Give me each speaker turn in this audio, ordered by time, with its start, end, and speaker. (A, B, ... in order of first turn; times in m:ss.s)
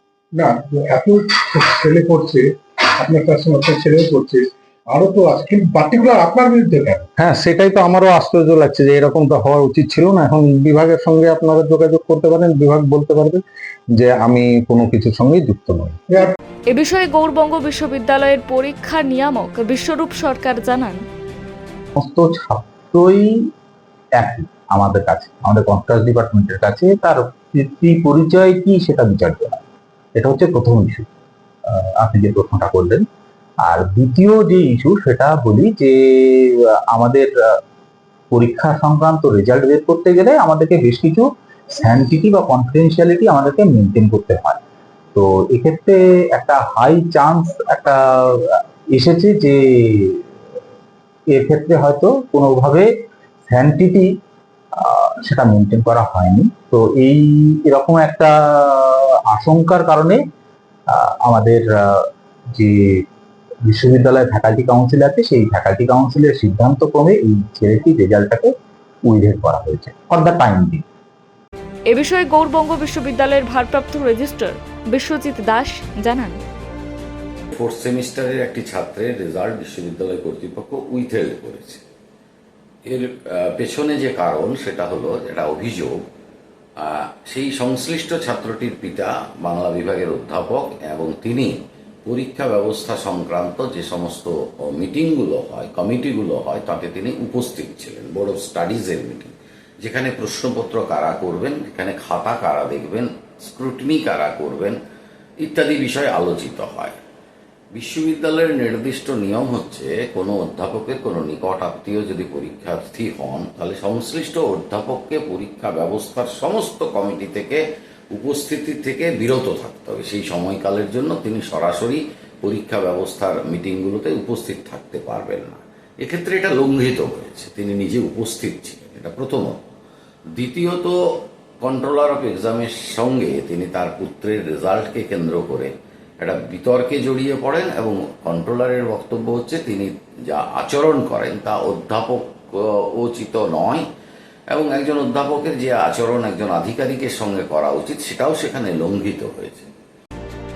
0:00.4-0:07.1 A
0:07.2-0:13.4 B
0:14.0-0:16.0 B
0:16.1-0:16.3 A
0:16.7-0:21.0 C
0:22.0-0:23.5 D
0:24.2-0:29.6 D
0:30.2-0:31.1 D
0:31.7-0:33.1 D
0:33.6-0:37.6 D
0:38.3-0:44.6 D
0:45.2-0:50.2 D
0:51.3-0:52.9 D
0:53.5-0:54.1 D
0:54.8-1:00.2 D
1:00.9-1:03.0 D
1:03.7-1:08.5 D
1:09.0-1:10.8 D
1:11.9-1:16.4 C
1:17.5-1:21.8 E
1:22.9-1:26.0 E
1:26.8-1:44.8 E
1:45.4-1:47.0 E
1:47.7-1:57.6 E
1:58.1-2:09.6 E
2:10.3-2:23.9 E
2:24.5-2:29.7 E